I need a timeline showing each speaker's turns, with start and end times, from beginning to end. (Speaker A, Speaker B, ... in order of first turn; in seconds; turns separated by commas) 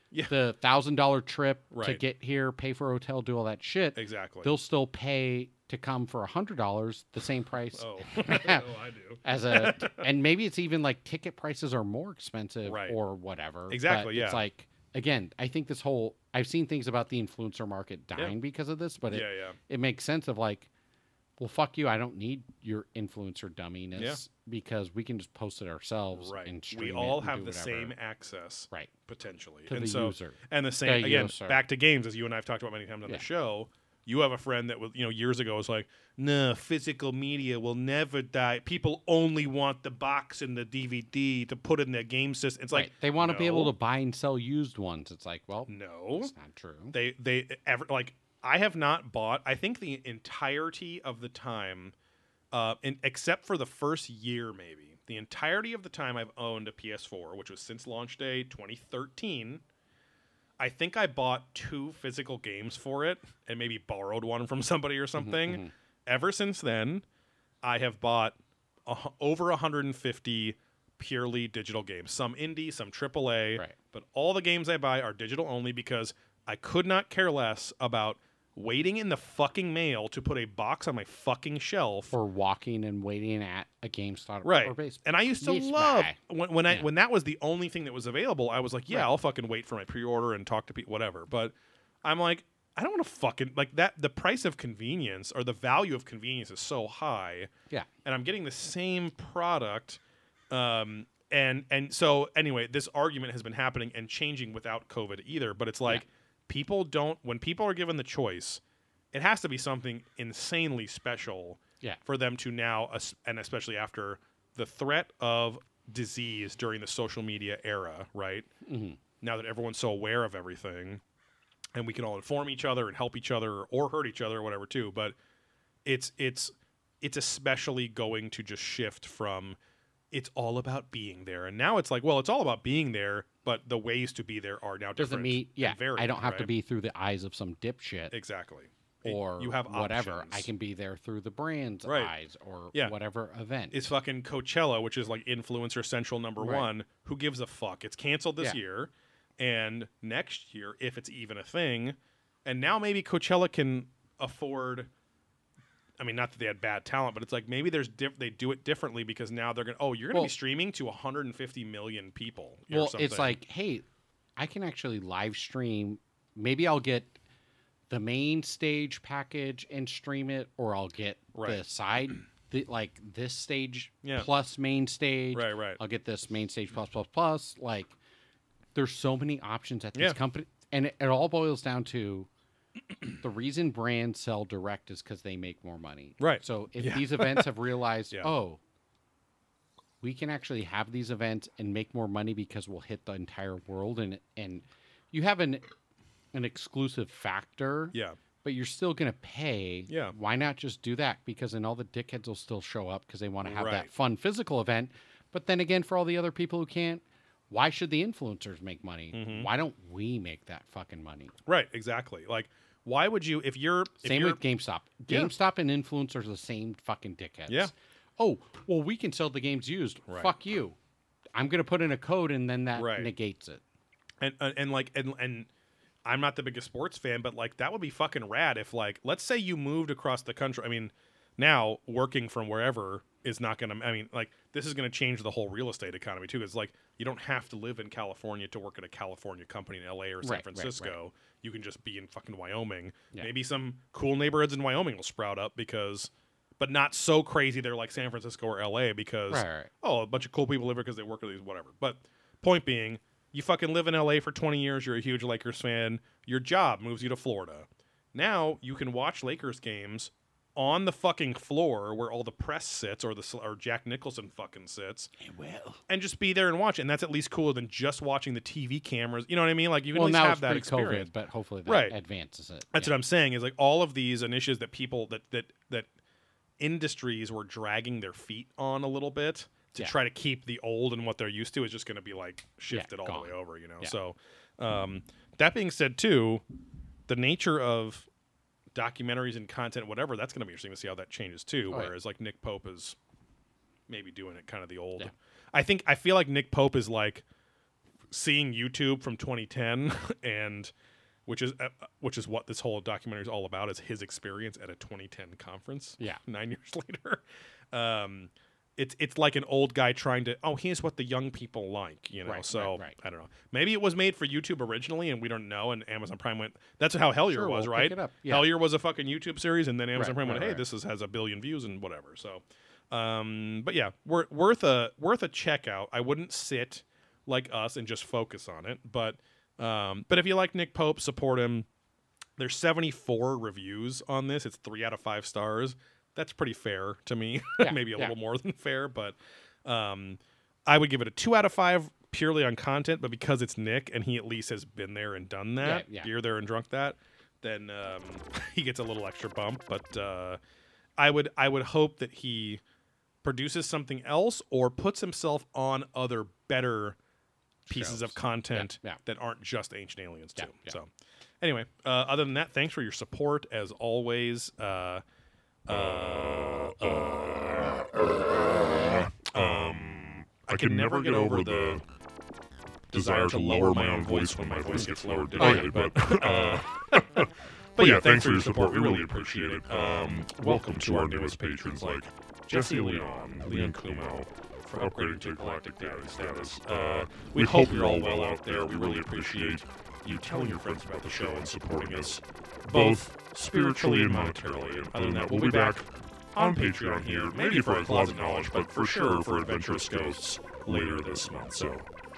Speaker A: 0.3-8.7, Speaker B: 1.7-2.0, Speaker B: 4.0-4.5, Speaker B: 7.7-10.1, Speaker A: 9.2-20.7, Speaker B: 12.7-13.0, Speaker B: 13.7-14.4, Speaker B: 19.1-19.6, Speaker A: 21.4-27.9, Speaker B: 24.0-24.2, Speaker B: 26.2-43.7, Speaker A: 29.7-31.6, Speaker A: 42.7-47.0, Speaker B: 45.7-46.3, Speaker B: 46.9-52.0, Speaker B: 52.5-59.6, Speaker B: 60.6-67.0, Speaker A: 65.2-65.7, Speaker B: 67.6-68.3, Speaker B: 68.9-82.1, Speaker A: 82.1-86.2, Speaker B: 84.4-97.5, Speaker B: 98.0-118.5, Speaker A: 118.7-119.0, Speaker B: 119.2-121.0, Speaker B: 121.8-125.2, Speaker B: 125.8-129.6, Speaker B: 130.1-136.5, Speaker A: 135.0-138.2, Speaker B: 138.1-140.5, Speaker A: 139.0-143.8, Speaker B: 141.9-142.1, Speaker B: 143.7-154.9, Speaker A: 146.4-146.7, Speaker B: 156.0-163.4, Speaker A: 162.7-163.8, Speaker A: 164.4-167.2, Speaker A: 167.9-177.9, Speaker B: 171.3-171.6, Speaker B: 175.3-175.8, Speaker A: 178.8-182.3, Speaker A: 183.2-188.6, Speaker B: 186.2-187.5, Speaker A: 190.0-195.7, Speaker A: 196.3-211.3, Speaker B: 197.9-198.2, Speaker B: 199.9-200.1, Speaker B: 203.4-203.9, Speaker B: 209.1-209.5, Speaker B: 211.5-214.4, Speaker A: 214.0-220.8, Speaker A: 221.3-223.6, Speaker B: 222.7-223.1, Speaker B: 224.2-225.5, Speaker B: 226.1-265.1, Speaker A: 240.2-241.0, Speaker A: 249.3-249.7, Speaker A: 265.2-265.8, Speaker B: 265.9-271.1, Speaker A: 269.9-273.0, Speaker B: 271.7-272.0, Speaker B: 272.7-275.9, Speaker B: 276.6-286.4, Speaker A: 282.7-283.9, Speaker B: 287.1-288.1, Speaker B: 288.7-293.0, Speaker B: 293.9-297.2, Speaker B: 298.1-300.7, Speaker B: 301.3-331.7, Speaker A: 312.2-312.9, Speaker A: 317.3-318.5, Speaker A: 319.9-320.6, Speaker B: 332.4-350.4, Speaker A: 337.6-338.1, Speaker A: 345.6-346.1, Speaker B: 351.0-352.6, Speaker B: 353.2-357.0, Speaker B: 357.7-360.9, Speaker A: 357.7-359.0, Speaker A: 360.4-360.8, Speaker B: 361.4-365.0, Speaker B: 365.7-367.1, Speaker C: 365.7-371.9, Speaker B: 369.3-369.8, Speaker B: 370.5-371.8, Speaker B: 372.9-401.6, Speaker C: 372.9-401.9, Speaker A: 375.4-375.7